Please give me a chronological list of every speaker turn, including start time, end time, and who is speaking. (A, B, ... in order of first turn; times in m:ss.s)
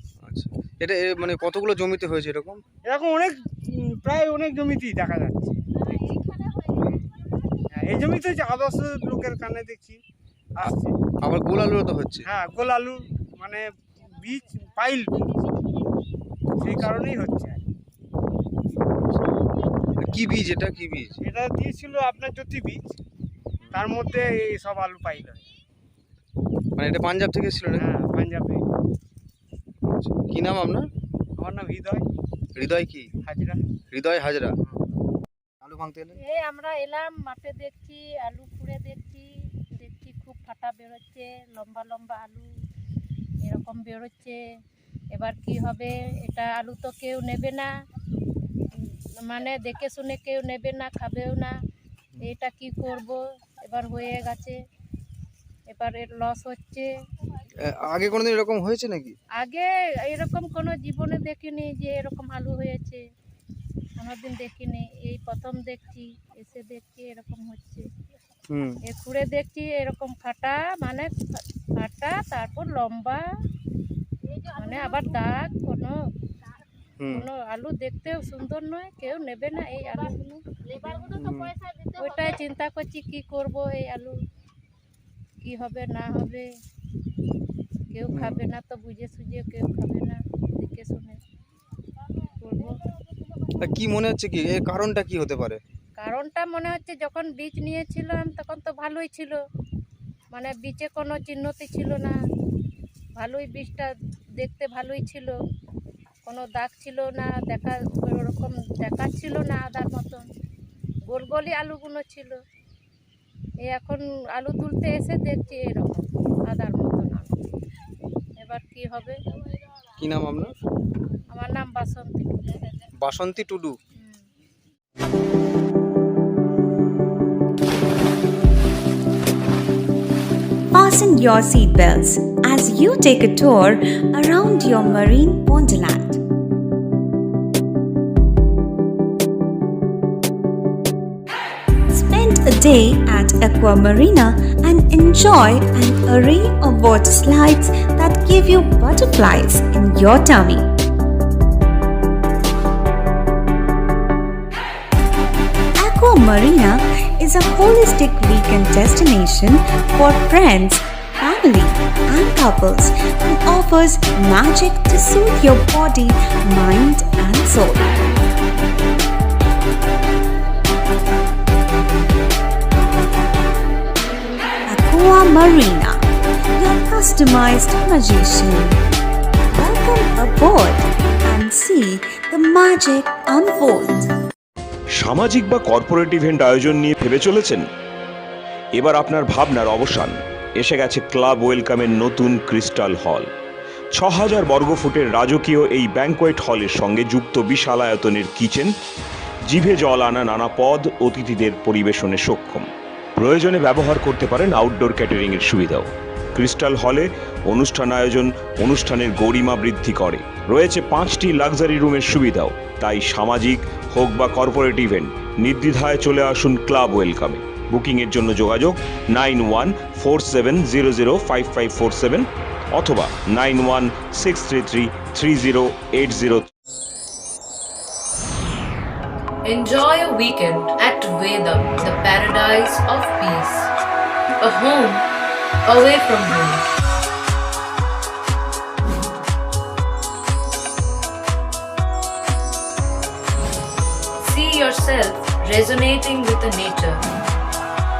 0:00.2-0:02.6 A
0:02.8-0:05.6 B
0:07.7-0:10.0 B
0:10.6-0:11.0 B
0:11.2-0:12.3 A
0:12.2-0:15.2 B
0:16.6-0:17.0 A
0:16.6-0:17.6 B
0:20.0-0:21.2 A
0:21.2-0:23.0 B
0:23.7-0:25.4 B
0:26.8-0:27.9 A
0:27.7-0:28.7 B
0:29.8-0:30.8 A
0:31.4-0:32.0 B
0:32.6-0:33.1 A
0:33.2-0:33.7 B
0:33.8-0:34.6 A
0:35.6-0:36.2 A
0:36.2-0:42.5 C
0:43.4-0:44.4 C
0:45.1-0:47.7 C
0:49.2-0:51.5 C
0:52.2-0:54.6 C
0:55.7-0:56.9 C
0:57.6-0:59.2 A
0:59.4-1:03.0 C
1:04.0-1:07.8 C
1:08.5-1:08.8 A
1:08.9-1:13.2 C
1:14.5-1:16.0 C
1:17.0-1:17.3 A
1:17.1-1:21.1 C
1:21.1-1:21.5 A
1:22.0-1:24.1 C
1:25.4-1:26.5 C
1:27.9-1:31.2 C
1:28.1-1:28.4 A
1:32.4-1:32.7 C
1:33.6-1:35.6 A
1:36.0-1:39.4 C
1:40.3-1:42.1 C
1:43.2-1:45.3 C
1:46.2-1:50.2 C
1:51.1-1:52.4 C
1:53.6-1:57.3 C
1:58.4-1:59.2 C
2:00.0-2:00.5 A
2:01.3-2:02.5 C
2:03.0-2:03.8 A
2:10.7-2:16.2 D
2:21.9-2:30.7 D
2:35.8-2:48.0 D
2:54.7-2:56.0 D
2:56.6-2:58.8 D
2:59.5-3:04.1 D
3:04.9-3:07.6 E
3:08.7-3:13.3 E
3:13.9-3:18.7 E
3:19.4-3:46.5 E
3:49.4-3:53.7 F
3:54.4-3:55.1 F
3:55.6-3:56.6 F
4:04.2-4:07.0 F